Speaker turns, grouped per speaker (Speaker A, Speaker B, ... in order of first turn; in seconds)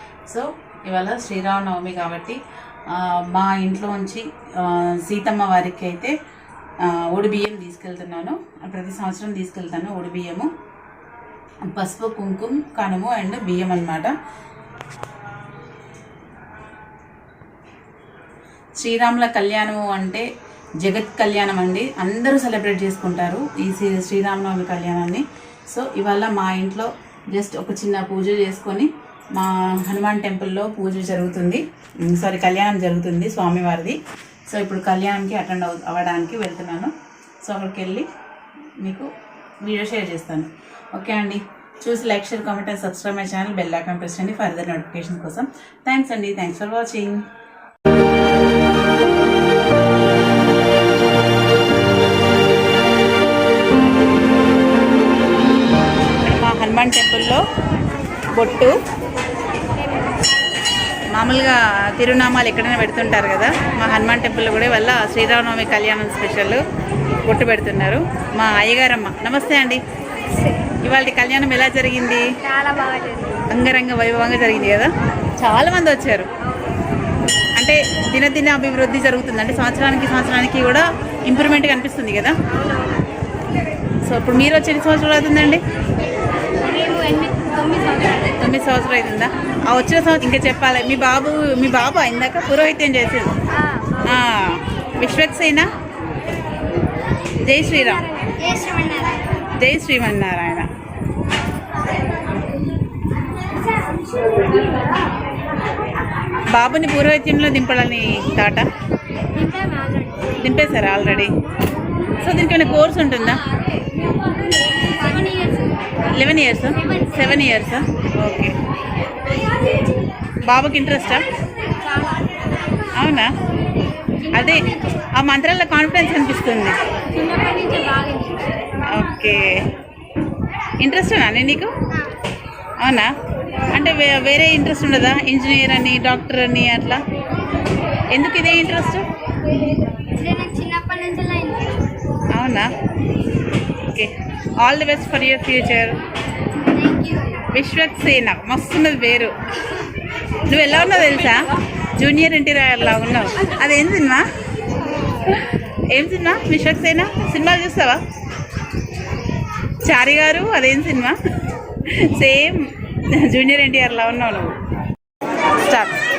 Speaker A: 0.3-2.4, 2.9-6.1, 6.8-10.5, 11.6-14.2, 18.8-20.3, 20.8-36.9, 37.4-38.1, 38.8-39.1, 39.6-47.2, 56.2-57.4, 58.3-58.7, 61.1-66.6, 67.2-69.8, 70.7-72.3, 73.5-76.3, 77.6-82.3, 84.0-85.6, 88.2-93.3, 94.0-95.7, 97.3-98.1, 99.5-100.7, 106.5-108.7, 110.3-111.4, 112.2-113.4, 116.0-118.5, 120.4-121.2, 122.9-123.3, 124.3-126.8, 128.8-129.7, 130.8-131.7, 132.8-133.1, 133.7-137.0, 138.1-139.1, 142.3-142.7, 143.8-146.0, 147.5-149.4, 150.4-154.3, 155.1-158.0, 159.8-161.2, 161.8-164.5, 165.4-166.0
Speaker B: 72.5-73.4, 86.6-88.3, 93.6-94.0, 97.8-99.5, 109.3-110.3, 114.1-116.0, 122.0-122.2, 127.1-128.5, 140.1-141.9, 146.6-147.4